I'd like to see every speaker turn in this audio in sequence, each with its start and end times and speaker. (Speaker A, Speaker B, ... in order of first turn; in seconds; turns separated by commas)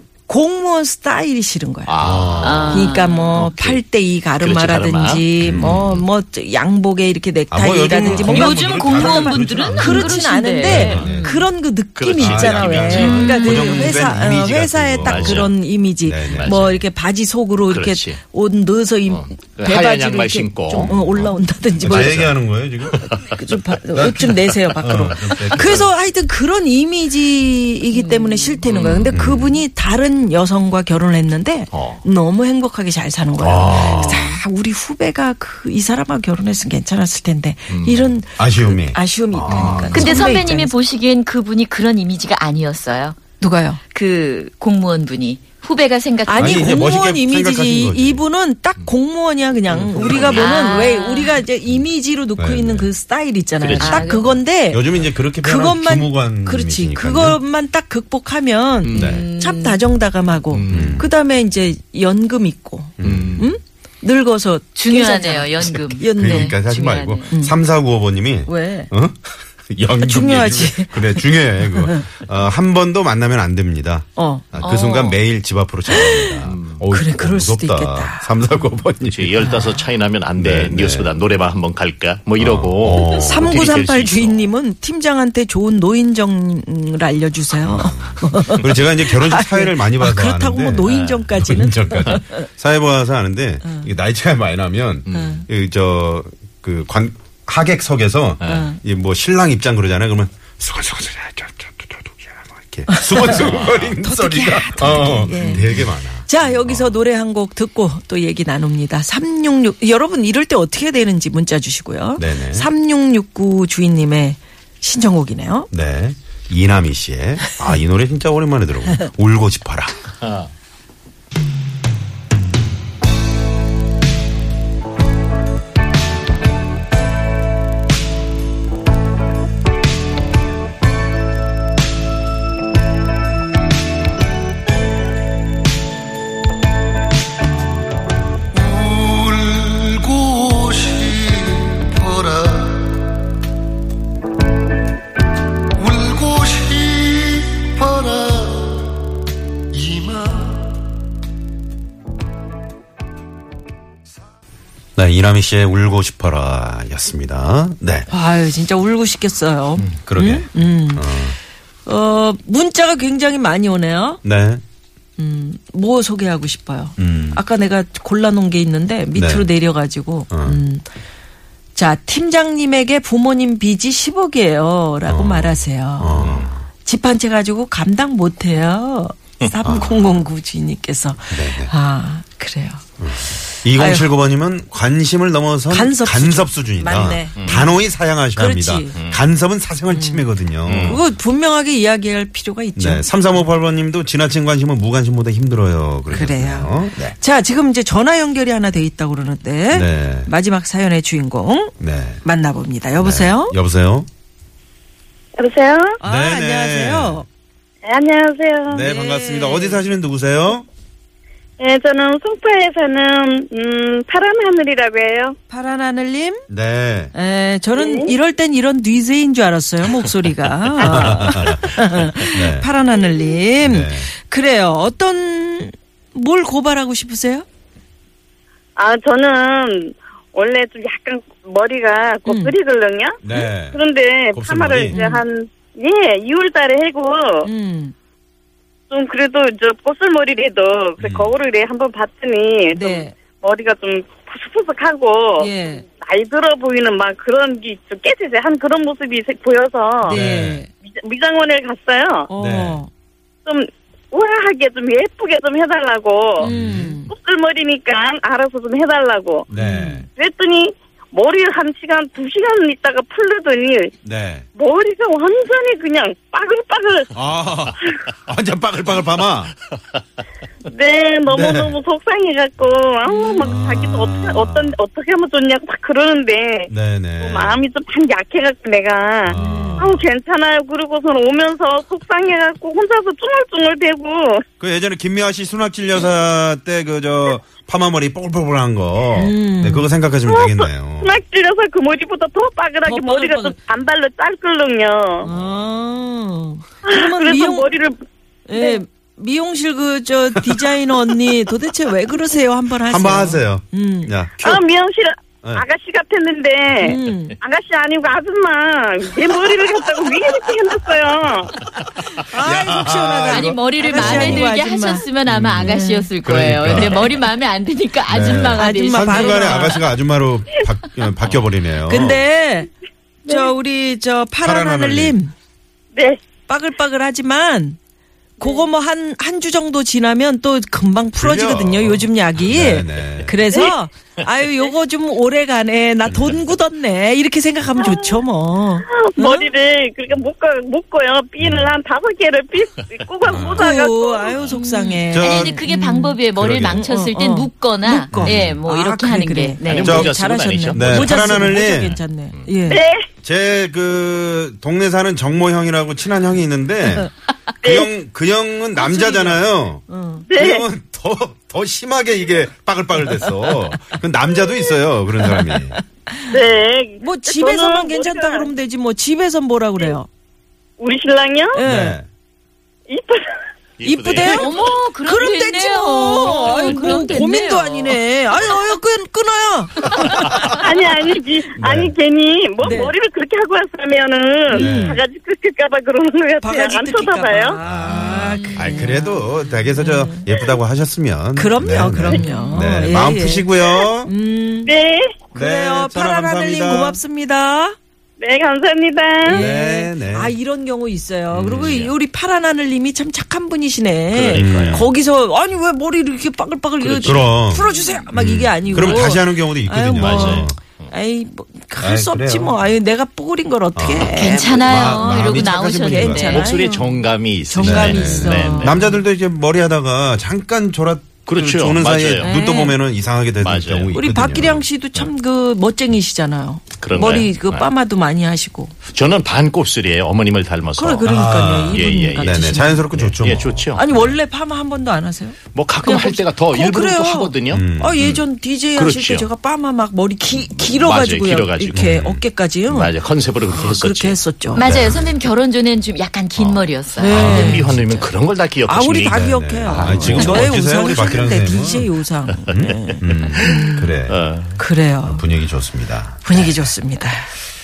Speaker A: 0.3-2.0, Speaker B: 1.9-3.8, Speaker C: 2.0-2.9, Speaker D: 2.4-3.2, Speaker A: 2.7-22.3, Speaker B: 4.4-6.0, Speaker C: 5.4-5.9, Speaker C: 7.5-11.3, Speaker D: 7.9-11.5, Speaker B: 12.0-13.2, Speaker C: 12.1-15.5, Speaker D: 13.0-13.7, Speaker B: 15.0-15.6, Speaker C: 16.0-16.9, Speaker B: 16.3-16.6, Speaker B: 17.7-18.2, Speaker B: 19.1-22.3, Speaker C: 21.9-23.1, Speaker A: 23.3-40.8, Speaker C: 23.9-25.9, Speaker D: 27.9-28.6, Speaker B: 28.7-29.5, Speaker B: 31.7-32.0, Speaker C: 33.4-34.3, Speaker B: 33.9-34.2, Speaker B: 37.7-38.1, Speaker C: 38.4-40.1, Speaker B: 39.5-39.9, Speaker D: 39.9-43.2, Speaker A: 43.4-43.8, Speaker D: 43.9-46.6, Speaker A: 46.3-66.6, Speaker C: 46.4-48.2, Speaker B: 49.7-50.5, Speaker C: 49.9-50.3, Speaker D: 50.2-51.4, Speaker C: 52.4-52.9, Speaker B: 53.6-54.0, Speaker D: 53.8-54.4, Speaker C: 54.7-57.4, Speaker B: 58.9-59.2, Speaker C: 58.9-59.2, Speaker D: 59.0-59.8, Speaker B: 60.5-61.0, Speaker C: 60.7-61.1, Speaker C: 63.0-63.5, Speaker B: 63.0-63.5, Speaker D: 64.8-67.3, Speaker C: 66.2-79.5, Speaker A: 67.3-67.6, Speaker A: 68.5-68.9, Speaker A: 70.0-72.1, Speaker A: 74.2-74.6, Speaker D: 74.6-75.2, Speaker A: 75.9-76.4, Speaker B: 76.5-76.8, Speaker A: 76.9-78.4, Speaker B: 79.0-84.5, Speaker C: 80.3-81.1, Speaker C: 82.4-83.6, Speaker A: 83.2-92.4, Speaker C: 87.6-107.0, Speaker B: 90.9-91.3, Speaker B: 95.1-95.5, Speaker A: 95.2-95.4, Speaker B: 98.4-98.7, Speaker A: 98.5-98.8, Speaker A: 102.9-115.7, Speaker B: 103.3-103.9, Speaker C: 112.2-112.7, Speaker C: 115.7-120.0, Speaker E: 138.7-142.6, Speaker E: 145.9-148.6, Speaker E: 149.8-150.4, Speaker C: 155.0-158.1, Speaker A: 158.1-161.2, Speaker C: 159.8-161.4, Speaker A: 161.8-164.2, Speaker C: 164.2-164.6, Speaker A: 165.2-170.9, Speaker C: 167.0-167.4, Speaker C: 169.2-169.5, Speaker C: 170.3-170.6, Speaker A: 171.8-176.3, Speaker C: 175.1-176.7, Speaker A: 176.8-182.8, Speaker C: 179.6-180.2, Speaker C: 181.3-181.7, Speaker C: 183.0-191.0, Speaker A: 183.7-184.1, Speaker A: 185.7-187.8, Speaker B: 187.4-187.7, Speaker A: 188.3-188.9, Speaker B: 189.0-189.2, Speaker A: 189.9-190.3, Speaker B: 190.7-191.0, Speaker A: 190.8-193.1, Speaker C: 192.8-197.2, Speaker A: 196.1-203.6, Speaker C: 199.7-200.3, Speaker C: 201.8-202.2, Speaker C: 203.0-204.1, Speaker F: 205.4-206.0, Speaker A: 206.0-207.3, Speaker C: 206.0-207.2, Speaker F: 207.8-208.8, Speaker C: 208.7-210.7, Speaker A: 208.8-209.8, Speaker F: 211.6-215.4, Speaker A: 215.5-216.4, Speaker C: 216.5-217.1, Speaker A: 217.1-227.4, Speaker F: 217.7-218.1, Speaker C: 220.8-222.7, Speaker F: 220.8-221.2, Speaker C: 223.6-224.1, Speaker F: 228.8-237.5, Speaker A: 232.3-232.6, Speaker C: 233.2-233.8, Speaker C: 234.3-235.0, Speaker A: 234.9-235.2, Speaker A: 237.4-237.9, Speaker F: 238.9-245.5, Speaker C: 241.0-241.3, Speaker A: 242.7-243.2, Speaker A: 245.4-245.8, Speaker F: 246.0-250.2, Speaker A: 250.1-250.7, Speaker C: 250.1-250.6, Speaker F: 250.9-252.3, Speaker A: 252.3-252.9, Speaker C: 252.4-252.8, Speaker F: 253.5-256.5, Speaker A: 256.4-257.1, Speaker C: 256.4-257.0, Speaker F: 257.1-259.5, Speaker C: 259.5-260.1, Speaker A: 259.6-260.1, Speaker F: 260.2-263.9, Speaker C: 264.0-264.5, Speaker F: 264.6-267.1, Speaker C: 267.1-269.5, Speaker F: 270.7-284.4, Speaker C: 271.3-271.8, Speaker A: 273.1-273.6, Speaker C: 273.4-274.8, Speaker C: 276.7-277.6, Speaker C: 279.2-280.1, Speaker A: 279.3-279.9, Speaker C: 284.6-291.2, Speaker A: 289.1-289.9, Speaker F: 290.3-295.3, Speaker A: 292.9-293.6, Speaker A: 295.2-297.7, Speaker F: 296.9-298.0, Speaker A: 298.5-304.1, Speaker C: 302.8-304.6, Speaker F: 304.4-311.6, Speaker A: 306.8-307.4, Speaker A: 312.2-315.1, Speaker C: 312.4-314.5, Speaker D: 313.3-319.7, Speaker C: 315.3-317.2, Speaker A: 315.6-316.1, Speaker C: 318.1-322.2, Speaker A: 318.6-319.8, Speaker A: 321.9-322.7, Speaker A: 323.2-325.3, Speaker C: 324.4-325.2, Speaker F: 325.9-326.2, Speaker A: 326.5-327.8, Speaker A: 328.4-339.5, Speaker C: 331.1-333.4, Speaker C: 336.1-336.4, Speaker F: 337.8-338.1, Speaker F: 338.9-344.4, Speaker C: 341.4-341.7, Speaker C: 343.3-343.7, Speaker A: 343.6-346.2, Speaker D: 344.6-350.0, Speaker C: 345.1-345.6, Speaker C: 346.4-346.8, Speaker A: 346.7-352.8, Speaker C: 348.1-348.6, Speaker B: 349.6-352.5, Speaker C: 349.8-350.1, Speaker C: 350.7-352.0, Speaker F: 352.7-353.0, Speaker C: 353.2-357.1, Speaker C: 357.6-365.8, Speaker F: 357.6-357.9, Speaker A: 358.8-360.3, Speaker F: 360.3-360.6, Speaker A: 365.2-366.3, Speaker F: 366.3-368.5, Speaker A: 367.0-370.1, Speaker F: 370.8-371.6, Speaker A: 371.6-372.0, Speaker C: 371.6-372.1, Speaker F: 372.9-373.2, Speaker B: 373.8-374.5, Speaker A: 373.8-380.4, Speaker D: 374.2-378.0, Speaker F: 380.5-387.6, Speaker C: 381.6-381.9, Speaker A: 382.6-382.9, Speaker A: 384.5-385.0, Speaker C: 384.5-385.0, Speaker A: 386.4-390.2, Speaker C: 387.6-394.1, Speaker D: 388.2-388.6, Speaker A: 391.4-393.5, Speaker A: 394.0-394.7, Speaker F: 394.7-395.2, Speaker A: 395.3-397.8, Speaker C: 395.3-397.0, Speaker F: 398.2-399.4, Speaker A: 399.3-419.0, Speaker C: 399.3-400.4, Speaker B: 401.3-401.9, Speaker C: 401.5-401.8, Speaker B: 404.1-404.9, Speaker C: 404.3-404.9, Speaker B: 406.8-407.2, Speaker C: 407.0-410.6, Speaker B: 408.8-409.0, Speaker B: 410.0-410.9, Speaker C: 411.8-412.6, Speaker C: 413.8-416.4, Speaker D: 414.1-416.5, Speaker B: 416.3-418.8, Speaker C: 417.6-424.6, Speaker B: 421.3-422.3, Speaker A: 422.2-422.8, Speaker B: 423.4-424.0, Speaker A: 423.9-428.7, Speaker B: 426.8-427.7, Speaker B: 428.9-434.2, Speaker A: 430.8-432.9, Speaker C: 431.1-433.7, Speaker A: 433.8-442.9, Speaker B: 435.5-438.2, Speaker C: 437.5-438.2, Speaker B: 438.8-439.3, Speaker B: 440.3-444.2, Speaker C: 441.7-442.1, Speaker A: 443.5-444.7, Speaker D: 444.5-447.9, Speaker C: 444.6-445.2, Speaker C: 446.4-447.8, Speaker A: 446.9-447.8, Speaker B: 447.1-450.3, Speaker A: 448.6-453.9, Speaker C: 449.1-451.9, Speaker C: 452.5-454.2, Speaker B: 452.7-454.6, Speaker A: 454.6-455.2, Speaker C: 455.0-456.7, Speaker A: 456.2-457.3